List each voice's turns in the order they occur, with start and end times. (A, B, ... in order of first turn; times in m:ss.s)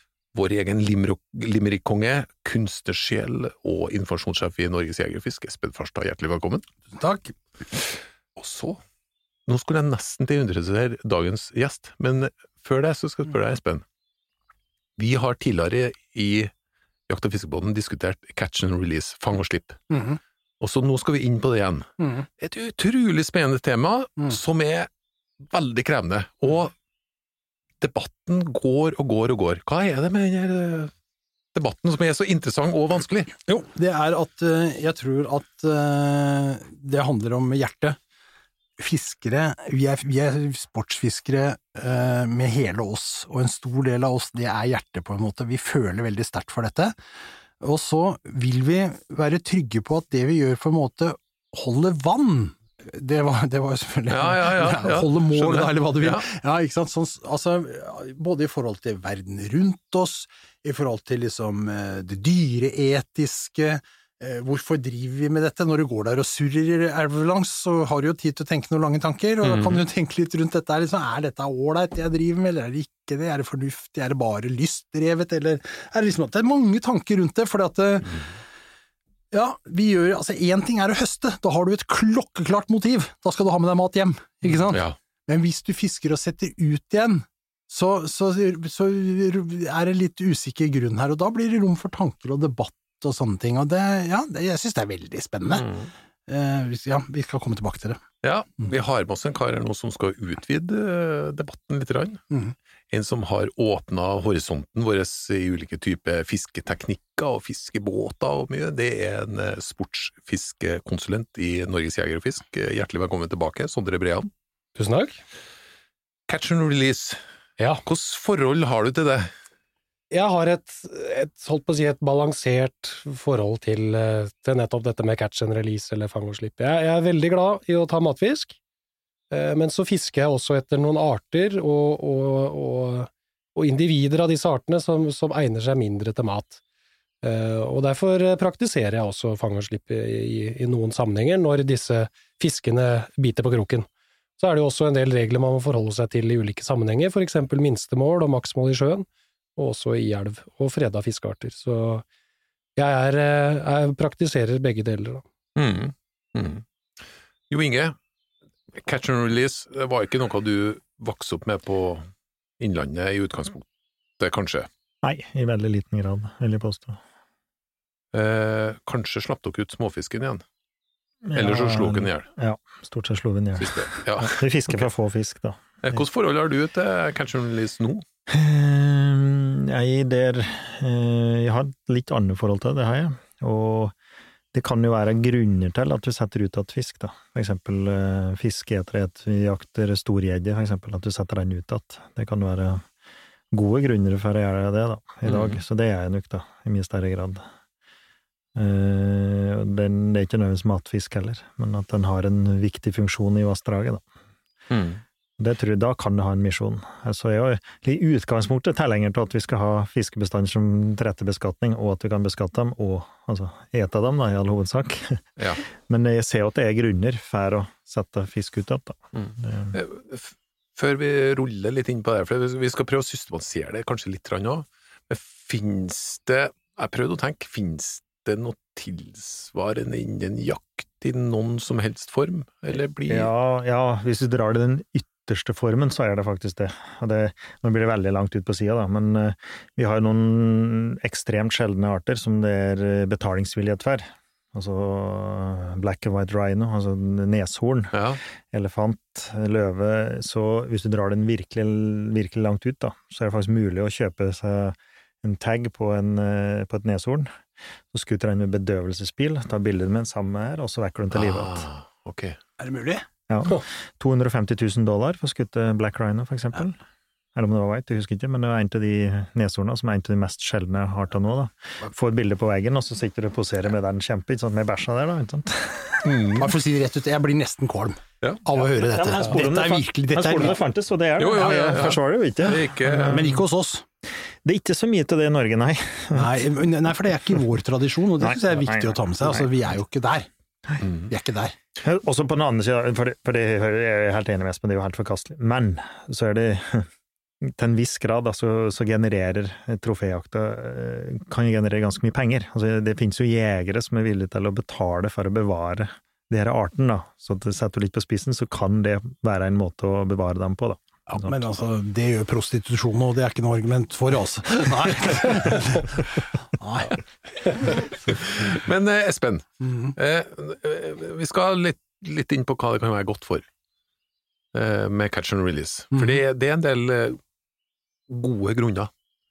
0:00.3-0:06.7 A
0:06.9-0:07.3 B
0:08.4-0:08.8 A
0:09.5-0:13.8 A
0:15.0-0:16.5 A
0:17.1-0:19.8 A
0:19.9-0:20.2 B
0:20.6-0:24.9 A
0:22.0-0:22.3 B
0:25.5-0:26.7 A
0:27.8-0:30.9 A
0:31.5-0:33.3 A
0:33.4-0:38.0 B
0:38.8-0:46.9 B
0:47.6-1:18.2 B
0:54.1-0:56.2 A
1:09.4-1:09.8 A
1:19.3-1:35.6 B
1:24.7-1:25.0 A
1:35.5-1:35.9 A
1:36.3-1:38.0 B
1:38.2-1:42.2 A
1:42.9-1:54.3 A
1:54.8-1:55.2 C
1:56.3-1:57.2 A
1:57.6-1:57.8 C
1:57.8-1:59.3 A
2:00.1-2:08.6 C
2:09.3-2:16.6 C
2:17.2-2:32.0 C
2:32.8-2:35.2 C
2:35.6-2:36.6 A
2:37.5-2:38.0 A
2:38.8-2:42.1 A
2:42.6-2:43.7 A
2:44.2-2:44.7 A
2:45.0-2:47.0 D
2:48.1-2:50.4 A
2:51.2-2:56.0 D
2:51.3-2:52.3 A
2:53.6-2:54.8 A
2:55.8-2:58.0 A
2:58.3-3:03.9 D
3:04.5-3:12.8 D
3:13.5-3:17.4 D
3:15.2-3:15.6 A
3:18.5-3:24.0 D
3:24.7-3:25.0 A
3:25.4-3:39.8 D
3:35.4-3:35.6 A
3:39.1-3:53.3 A
3:53.1-4:17.4 D
4:07.9-4:08.2 A
4:17.9-4:21.7 D
4:21.1-4:22.4 A
4:22.6-4:23.0 B
4:23.3-4:26.8 D
4:27.3-4:36.2 D
4:36.0-4:36.4 A
4:36.4-4:40.6 B
4:38.8-4:43.4 D
4:41.2-4:43.3 A
4:41.4-4:41.8 B
4:43.0-4:43.8 B
4:44.4-4:46.5 D
4:46.1-4:50.3 B
4:48.2-4:49.5 D
4:50.8-4:51.1 A
4:51.1-4:51.5 B
4:51.8-4:56.9 D
4:57.4-5:11.4 D
5:11.1-5:17.0 B
5:18.1-5:23.4 A
5:19.6-5:19.9 B
5:24.5-5:27.2 A
5:25.9-5:26.2 B
5:28.1-5:28.9 A